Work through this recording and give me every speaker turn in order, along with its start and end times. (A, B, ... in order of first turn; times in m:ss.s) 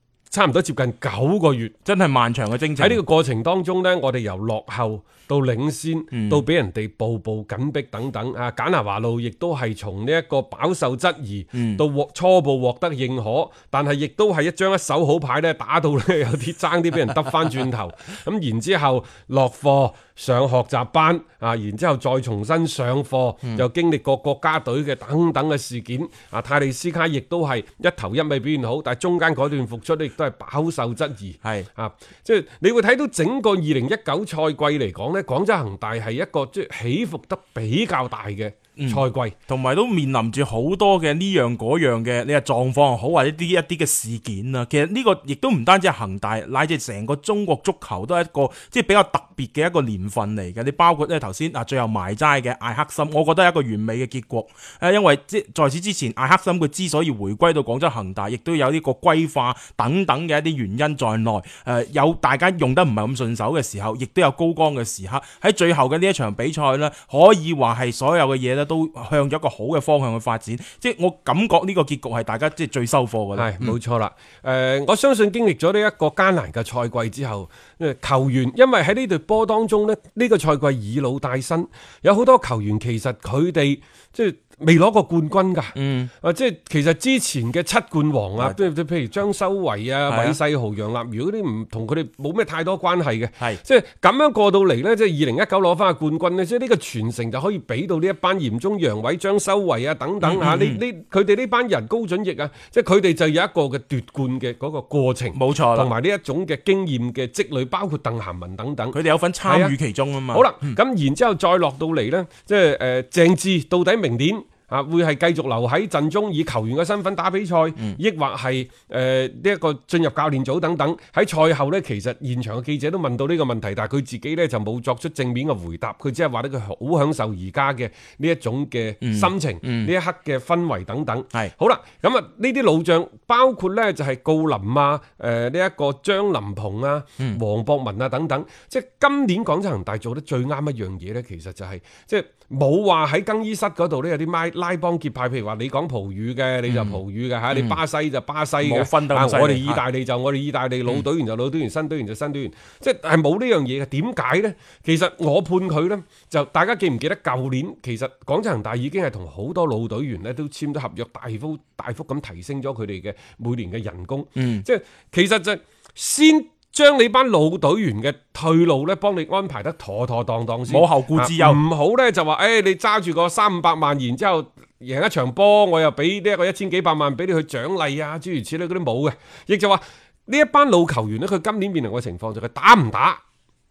0:00.3-0:01.7 A
0:01.8-0:03.0 B
0:02.8-0:39.4 A
0:06.1-0:06.4 B
0:11.5-0:11.8 B
0:38.8-1:13.7 B
1:13.4-1:49.8 A
1:25.8-1:26.1 B
1:30.1-1:30.4 B
1:40.2-1:40.8 B
1:45.3-1:45.9 B
1:48.9-1:50.8 B
1:50.3-3:03.2 A
2:09.0-2:09.9 B
2:26.7-2:27.0 B
2:27.5-2:27.8 B
2:28.6-2:29.8 B
2:44.4-2:44.6 B
2:50.7-2:51.6 B